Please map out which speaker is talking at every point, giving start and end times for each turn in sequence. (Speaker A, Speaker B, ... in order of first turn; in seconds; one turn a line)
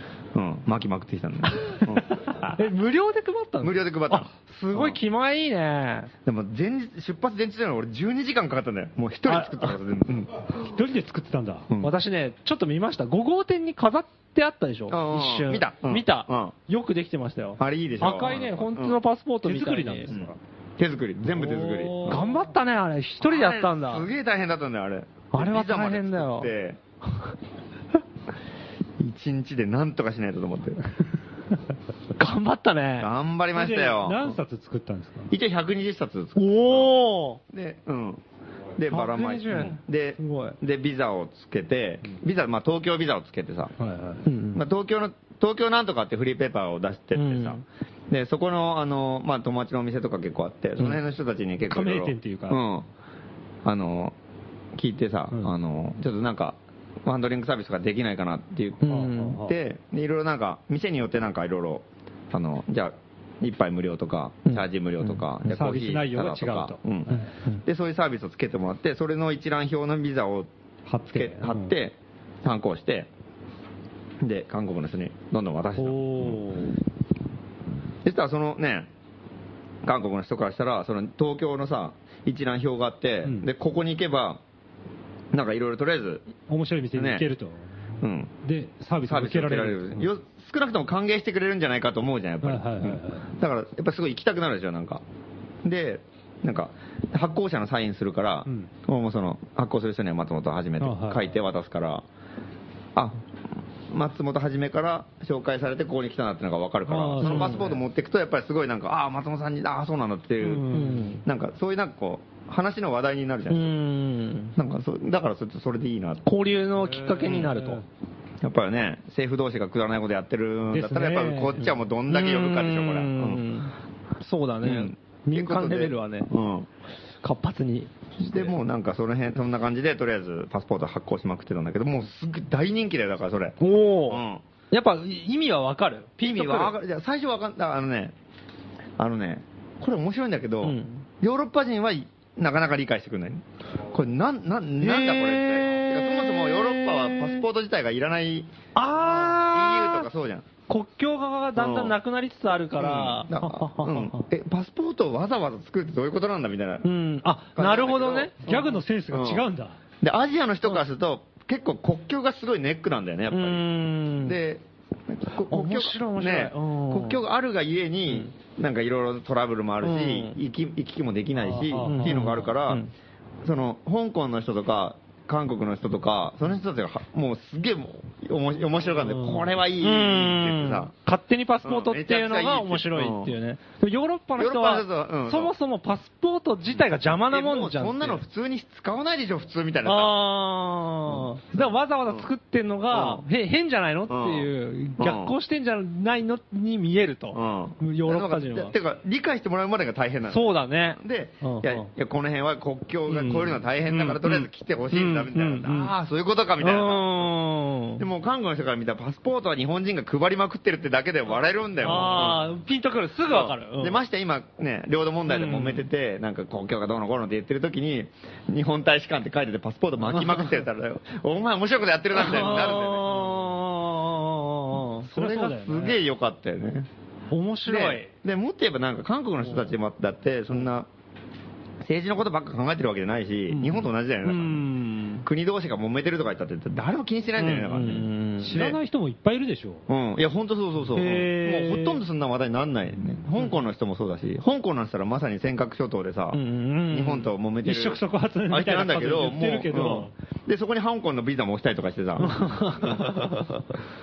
Speaker A: 0.3-2.2
Speaker B: 2.2-2.5
Speaker C: 2.5-6.1
Speaker A: 3.6-5.0
Speaker A: 6.2-10.4
Speaker B: 10.5-11.7
Speaker A: 11.7-11.9
Speaker C: 11.8-20.1
Speaker A: 14.9-16.5
Speaker A: 17.6-19.0
Speaker B: 19.4-20.4
Speaker A: 20.1-22.2
Speaker C: 21.6-24.1
Speaker B: 22.0-22.4
Speaker A: 23.2-26.8
Speaker C: 25.3-26.5
Speaker A: 29.0-30.8
Speaker C: 32.1-33.1
Speaker A: 33.0-34.4
Speaker B: 33.5-35.3
Speaker A: 35.3-36.9
Speaker C: 36.4-37.4
Speaker A: 37.5-38.2
Speaker A: 38.8-43.7
Speaker C: 38.9-40.6
Speaker B: 43.8-44.2
Speaker C: 44.2-44.6
Speaker A: 44.5-52.9
Speaker C: 47.1-47.6
Speaker B: 51.7-52.6
Speaker A: 53.6-54.1
Speaker A: 54.7-70.5
Speaker C: 58.8-59.4
Speaker B: 58.9-59.5
Speaker B: 65.5-67.3
Speaker B: 70.9-71.7
Speaker A: 71.0-73.1
Speaker A: 74.2-76.4
Speaker B: 75.8-76.7
Speaker A: 78.0-78.9
Speaker A: 79.8-84.4
Speaker A: 85.3-86.2
Speaker B: 86.5-90.1
Speaker A: 86.9-87.2
Speaker A: 88.0-88.3
Speaker A: 89.0-95.0
Speaker B: 92.4-93.3
Speaker A: 95.6-102.0
Speaker B: 100.8-101.2
Speaker A: 103.0-103.2
Speaker A: 103.9-113.8
Speaker B: 106.9-107.8
Speaker C: 107.2-107.6
Speaker B: 110.4-111.1
Speaker C: 110.7-111.2
Speaker C: 113.5-114.5
Speaker A: 114.5-116.2
Speaker C: 116.2-117.8
Speaker B: 116.8-117.8
Speaker A: 118.4-123.5
Speaker B: 120.7-121.6
Speaker C: 121.3-126.3
Speaker A: 124.6-126.7
Speaker C: 127.2-128.5
Speaker A: 128.2-134.4
Speaker C: 133.6-136.8
Speaker A: 136.2-138.1
Speaker A: 139.0-148.5
Speaker C: 140.6-141.0
Speaker C: 144.8-147.4
Speaker C: 148.7-150.1
Speaker A: 149.0-150.4
Speaker C: 150.7-154.3
Speaker A: 151.6-152.0
Speaker A: 152.8-156.9
Speaker C: 156.8-158.5
Speaker A: 157.5-159.5
Speaker B: 158.4-159.8
Speaker A: 160.0-172.8
Speaker C: 163.3-164.4
Speaker C: 165.5-167.2
Speaker C: 169.8-170.3
Speaker B: 171.4-172.4
Speaker C: 171.8-172.9
Speaker A: 173.4-180.9
Speaker B: 179.1-179.4
Speaker C: 179.8-188.2
Speaker A: 181.6-183.4
Speaker A: 184.4-185.5
Speaker A: 186.8-190.2
Speaker C: 189.8-198.7
Speaker A: 191.1-192.3
Speaker A: 192.9-193.2
Speaker A: 194.1-195.3
Speaker A: 197.3-207.3
Speaker C: 200.3-201.9
Speaker C: 203.1-205.9
Speaker C: 206.6-208.0
Speaker A: 208.0-212.4
Speaker C: 211.8-214.0
Speaker A: 213.2-223.3
Speaker C: 215.3-215.8
Speaker C: 222.1-225.1
Speaker A: 225.0-226.9
Speaker B: 225.1-226.0
Speaker C: 227.3-228.1
Speaker A: 227.7-230.9
Speaker A: 231.8-234.7
Speaker C: 233.5-235.2
Speaker A: 235.2-238.8
Speaker C: 237.4-238.6
Speaker B: 238.4-239.8
Speaker A: 239.9-253.2
Speaker C: 240.9-242.0
Speaker C: 246.3-247.3
Speaker B: 247.6-250.1
Speaker C: 252.2-253.2